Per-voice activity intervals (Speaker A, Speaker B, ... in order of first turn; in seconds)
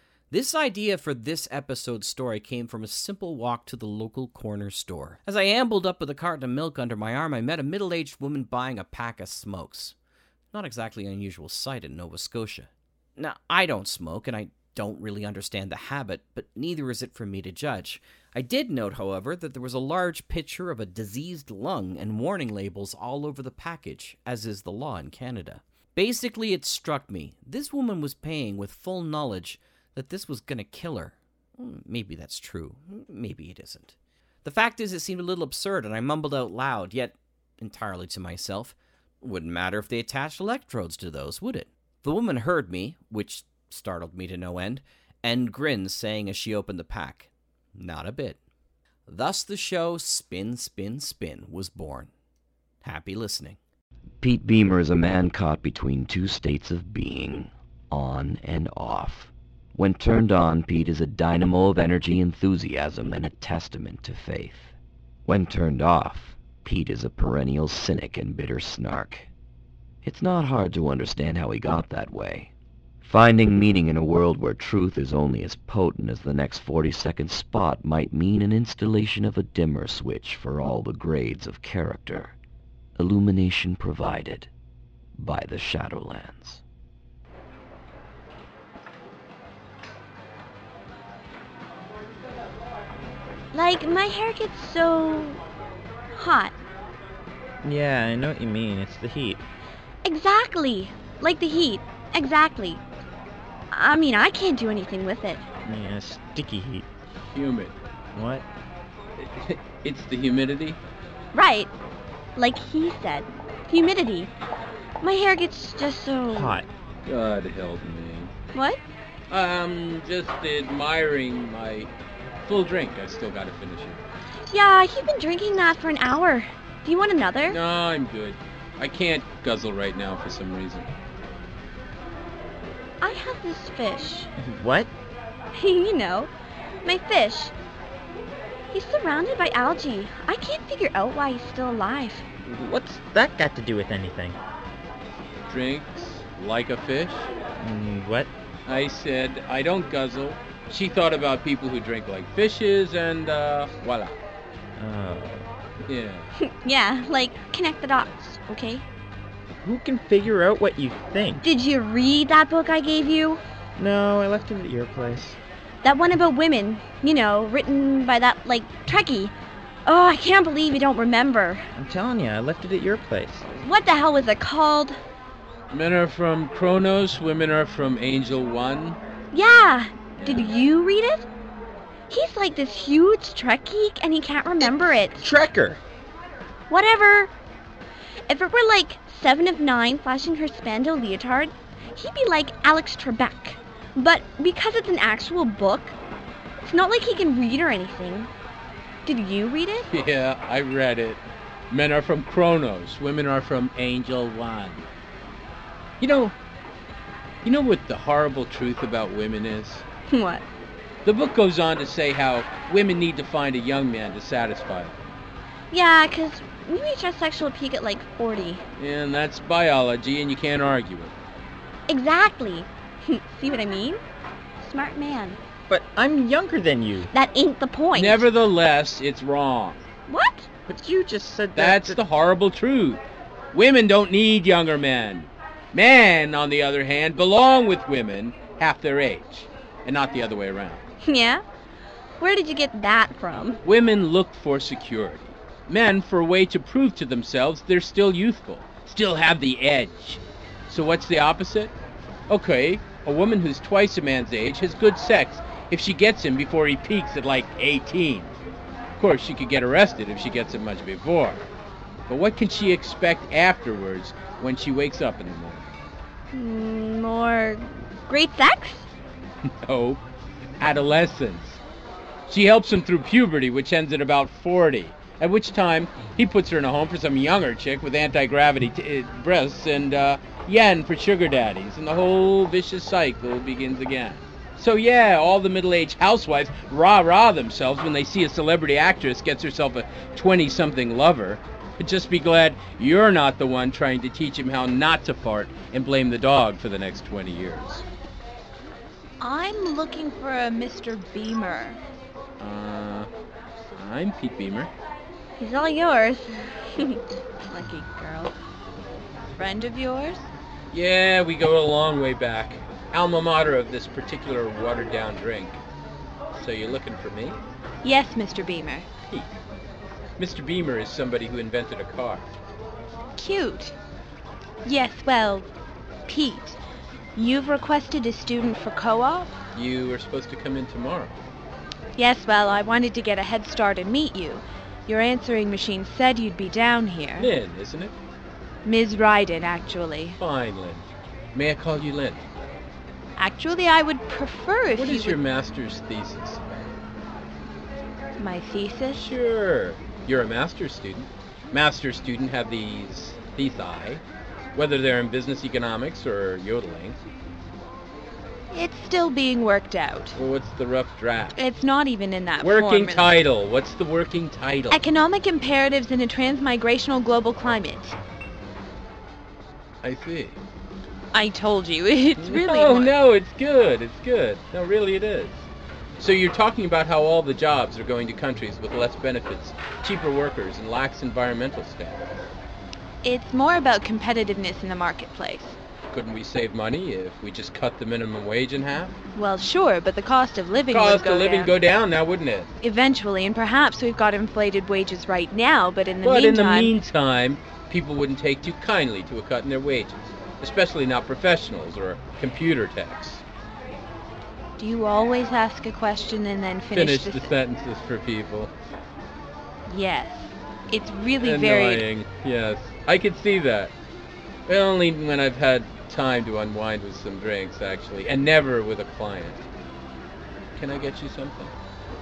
Speaker A: 0.3-9.9, 10.5-48.4, 49.1-52.1, 52.8-53.6
Speaker B: 54.2-64.7, 65.3-69.3, 70.0-72.5, 73.0-82.3, 83.0-84.5, 85.2-86.6
Speaker C: 93.5-95.4, 96.1-96.5, 100.0-102.8, 103.7-105.5, 111.3-111.7, 112.4-114.3, 115.0-116.6, 118.5-118.8, 124.5-127.6, 133.0-134.3, 135.5-136.3, 136.8-137.5, 138.7-142.3, 156.4-158.9, 161.4-163.4, 165.8-169.3, 169.9-171.7, 173.6-175.0, 179.3-181.2, 182.1-185.2, 186.7-187.3, 188.3-195.9, 196.7-198.3, 199.1-199.9, 210.1-210.4, 215.7-218.6, 221.9-224.0, 224.6-225.4, 227.1-228.2, 230.1-230.5, 241.0-241.4, 242.2-243.6, 266.3-268.9, 305.4-307.0
Speaker D: 97.6-99.4, 105.6-106.9, 108.1-108.5, 116.3-116.7, 134.4-134.9, 142.4-144.4, 147.6-148.3, 154.8-155.5, 159.6-161.4, 163.8-165.4, 171.8-173.5, 185.2-185.8, 225.7-227.1, 230.7-232.0
Speaker E: 107.3-107.8, 109.2-110.8, 117.1-118.3, 119.3-121.9, 122.5-124.0, 127.5-130.9, 145.5-147.3, 148.7-154.2, 155.9-156.3, 175.7-179.0, 180.2-180.6, 199.9-204.9, 206.0-206.3, 207.4-209.8, 211.0-215.0, 218.8-221.2, 227.9-229.8, 231.6-240.8, 243.6-251.7, 252.3-258.3, 259.0-261.5, 262.1-265.7, 269.6-270.0, 270.6-271.6, 272.3-297.9, 302.4-303.1, 303.7-304.7, 310.7-315.6, 316.3-317.4, 320.2-322.3, 329.5-331.2, 337.2-337.9, 340.2-342.3, 344.8-346.8, 348.9-354.0, 354.6-357.0, 360.1-361.4, 362.4-364.8, 369.8-370.4, 372.2-382.2, 385.9-388.9, 390.7-392.5, 396.0-403.2, 406.7-408.5, 411.2-413.7, 414.5-419.4, 420.6-421.6
Speaker F: 299.2-301.8, 307.5-308.3, 309.4-310.3, 317.8-318.9, 323.2-323.8, 324.6-325.5, 326.1-326.6, 327.2-329.4, 332.0-337.3, 338.6-340.2, 343.2-345.2, 348.2-349.1, 358.5-360.2, 361.4-363.1, 364.7-368.0, 371.1-372.9, 383.0-385.6, 389.2-391.5, 392.6-396.7, 404.6-407.3, 409.7-411.9